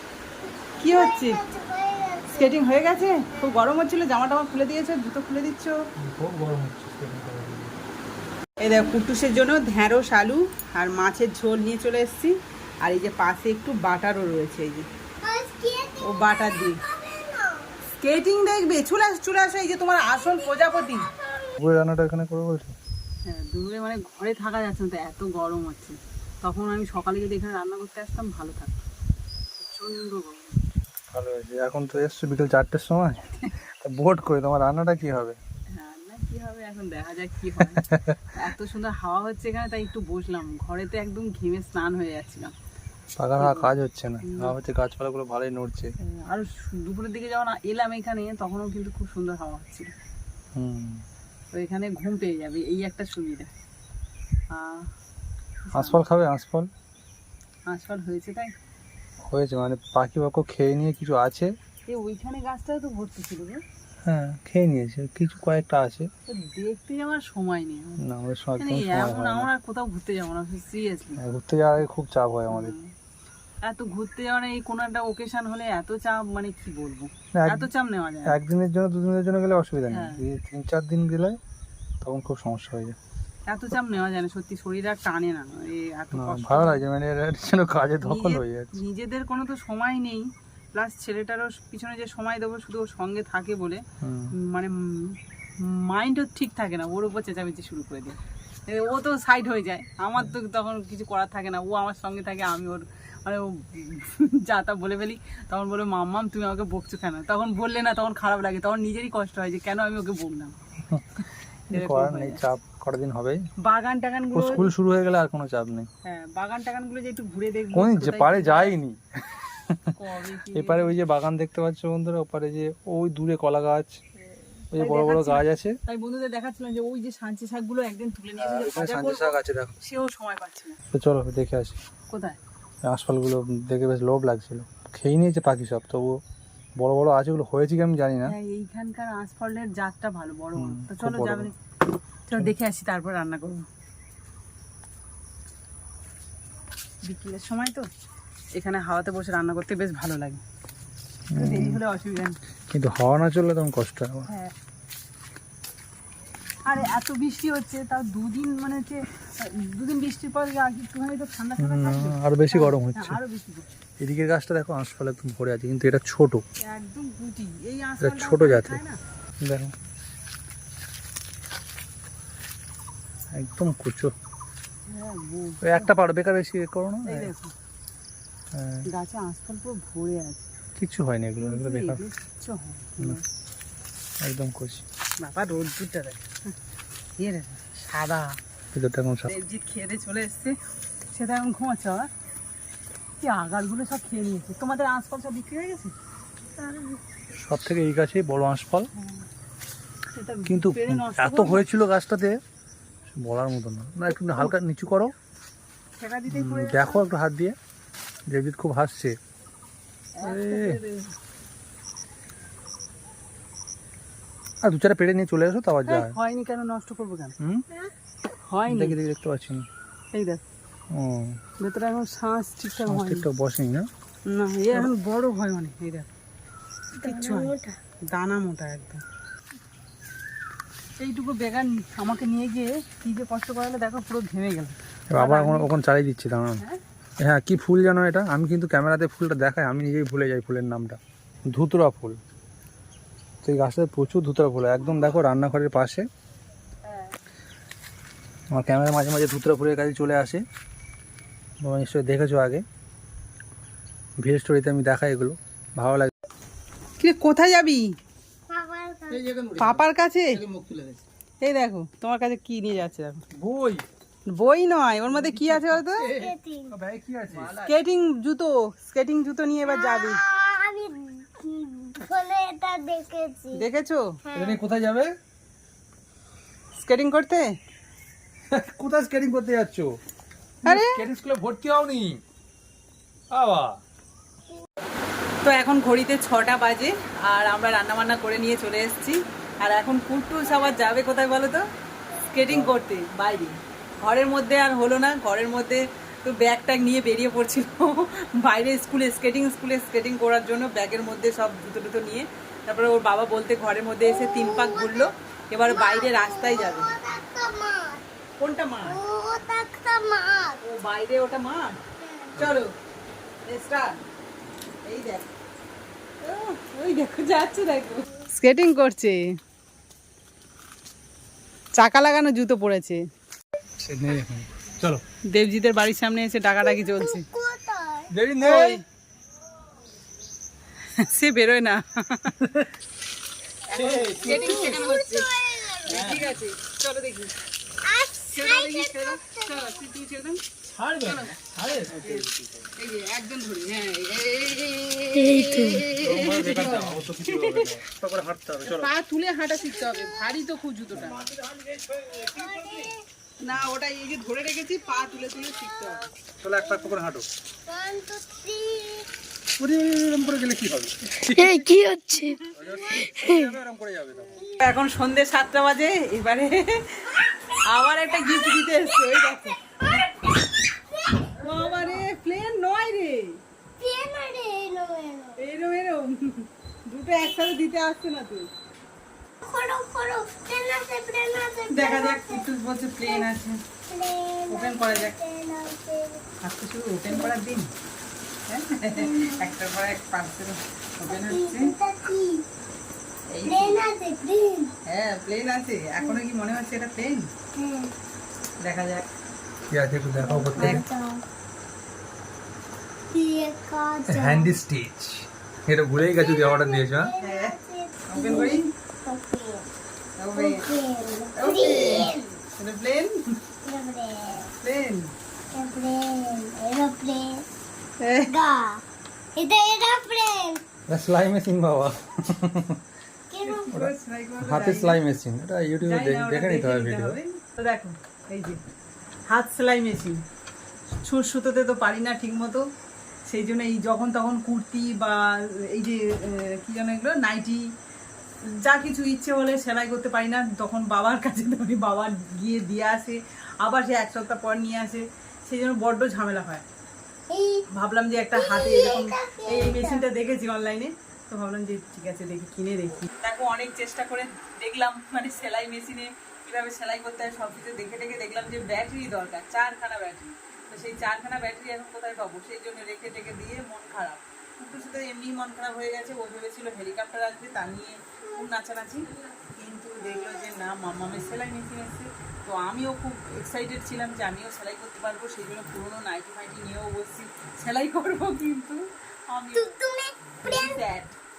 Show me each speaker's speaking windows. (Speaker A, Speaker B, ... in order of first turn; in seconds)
Speaker A: 0.8-2.6, 15.2-17.8, 20.2-21.5, 196.6-196.9, 227.0-227.8, 258.5-259.3, 266.0-266.7, 269.7-273.6, 274.2-274.6, 304.0-305.1, 305.6-308.0, 308.8-310.6, 312.0-312.4, 326.6-328.1, 333.7-336.1, 337.8-339.8, 345.2-345.8, 349.6-350.3, 352.1-353.0, 355.0-355.9, 356.6-356.9, 357.7-359.1, 361.3-363.5, 364.4-364.6, 368.2-371.5, 373.8-375.4, 379.4-382.4, 383.9-386.2, 388.9-389.5, 391.0-392.4, 393.4-394.7, 397.5-397.9, 400.2-401.2, 403.1-404.6, 406.1-409.7, 410.4-412.2, 413.6-414.5, 415.5-417.4, 418.3-418.8, 419.4-420.6, 423.3-423.7, 447.3-447.6, 448.3-450.0, 470.0-470.6, 479.5-480.8
Speaker B: 0.8-1.4, 2.3-5.7, 8.6-14.9, 16.0-16.8, 18.0-21.1, 23.2-28.8, 29.6-30.6, 35.7-42.5, 43.4-43.7, 44.2-44.5, 46.0-49.9, 51.5-53.5, 54.5-54.9, 55.7-56.0, 57.7-58.5, 61.9-63.6, 66.3-68.0, 68.6-71.2, 72.5-72.9, 73.6-78.4, 79.9-80.2, 83.5-86.8, 88.0-93.8, 94.3-110.5, 111.7-112.4, 113.6-114.7, 116.0-118.8, 120.0-121.0, 124.6-130.8, 132.1-132.4, 138.2-141.5, 142.3-143.6, 147.0-147.9, 148.6-150.4, 151.3-152.4, 154.3-154.5, 156.7-163.7, 166.6-169.0, 174.9-175.9, 177.1-177.5, 178.9-180.4, 181.4-183.2, 185.2-186.3, 187.2-188.4, 189.3-190.6, 191.1-192.1, 193.2-195.9, 198.9-199.2, 200.1-201.6, 206.0-207.0, 210.2-211.1, 215.8-217.3, 218.5-218.9, 220.1-220.4, 221.6-223.2, 224.3-226.1, 227.0-227.5, 228.1-229.0, 231.0-235.7, 244.8-245.1, 246.8-247.1, 257.0-257.9, 259.6-260.4, 261.4-263.2, 264.3-266.1, 267.6-270.2, 273.5-274.1, 276.8-277.5, 280.6-281.0, 285.4-291.6, 292.2-306.9, 308.4-309.0, 310.6-311.8, 312.4-312.7, 313.4-314.0, 314.9-315.3, 316.2-319.3, 321.7-323.0, 325.3-327.2, 328.4-328.8, 330.9-332.3, 333.7-335.3, 335.8-337.4, 338.3-340.4, 341.0-347.7, 348.6-351.2, 353.4-356.1, 364.6-369.6, 371.4-373.4, 375.4-378.5, 381.7-383.6, 384.5-385.1, 386.4-387.7, 388.5-391.7, 393.3-393.8, 394.9-397.3, 398.6-399.1, 400.6-400.8, 407.2-407.5, 408.1-408.7, 410.2-410.6, 411.4-413.2, 414.6-415.1, 418.0-418.3, 423.4-425.0, 425.8-428.6, 429.3-430.2, 431.0-432.6, 433.3-437.6, 438.5-446.6, 447.7-479.8, 480.4-481.2
Speaker C: 6.0-7.7, 21.6-22.7, 31.1-33.2, 33.8-35.4, 37.9-38.2, 43.2-45.9, 50.5-51.0, 55.7-56.7, 59.2-61.5, 64.0-66.1, 68.0-69.5, 71.2-72.7, 77.3-77.7, 78.3-81.4, 82.0-83.0, 86.1-88.7, 94.0-94.3, 111.7-113.4, 114.3-115.9, 117.7-119.9, 120.5-124.0, 124.7-125.8, 128.4-129.8, 130.9-131.8, 132.8-136.2, 136.8-138.3, 140.6-141.5, 151.3-151.8, 152.7-154.3, 161.6-163.2, 164.0-166.4, 168.0-168.8, 169.4-169.7, 173.3-174.1, 175.6-177.3, 178.5-178.9, 180.8-182.0, 184.2-184.8, 188.7-189.3, 197.4-198.9, 200.5-202.4, 203.1-205.1, 206.3-207.6, 208.3-209.2, 210.2-210.8, 214.6-216.2, 217.4-217.6, 218.7-219.7, 220.9-221.4, 222.8-223.9, 235.1-236.6, 237.2-242.2, 243.4-246.1, 248.5-250.4, 251.6-252.6, 254.2-256.1, 263.3-263.8, 265.1-267.7, 274.3-275.1, 278.5-279.9, 280.6-282.2, 283.3-283.8, 292.4-292.7, 312.4-312.6, 323.8-325.0, 328.1-328.8, 332.3-332.7, 333.7-334.8, 335.9-336.3, 340.7-342.7, 345.9-348.9, 350.9-352.0, 356.4-357.3, 359.6-361.7, 362.5-364.4, 399.7-400.8, 404.1-407.1, 408.2-408.5, 420.9-422.8, 423.7-427.2